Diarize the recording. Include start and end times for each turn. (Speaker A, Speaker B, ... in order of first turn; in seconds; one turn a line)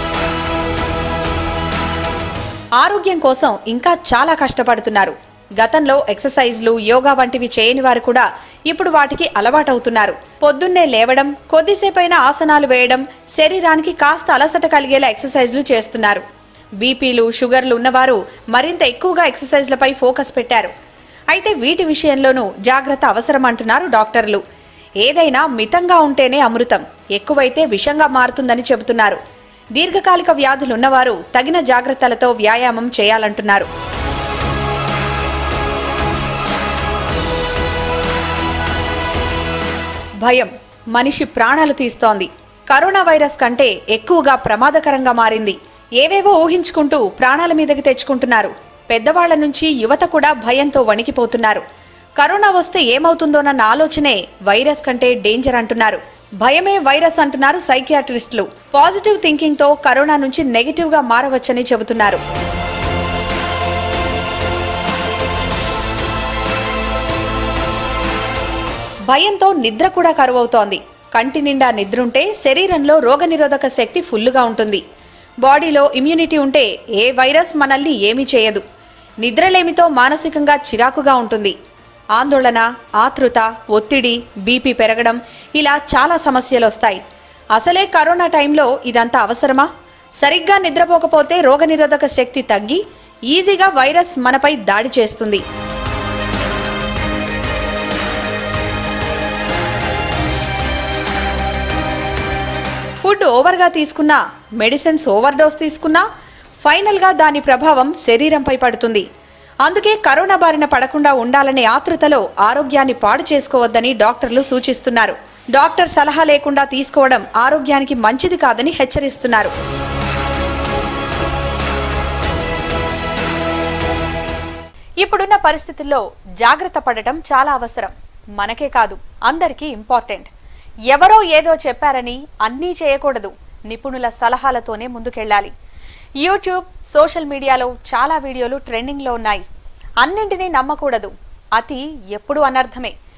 Speaker A: 2.8-16.2
Speaker A: 16.8-20.7
Speaker A: 21.3-24.4
Speaker A: 25.0-29.2
Speaker A: 29.8-33.7
Speaker A: 40.2-51.6
Speaker A: 52.2-62.2
Speaker A: 69.1-74.8
Speaker A: 75.4-78.6
Speaker A: 79.2-81.5
Speaker A: 82.2-87.0
Speaker A: 87.6-89.7
Speaker A: 90.2-92.8
Speaker A: 93.3-95.4
Speaker A: 103.0-106.0
Speaker A: 106.6-109.0
Speaker A: 109.7-119.5
Speaker A: 125.0-130.3
Speaker A: 130.9-135.5
Speaker A: 136.2-139.4
Speaker A: 140.0-142.9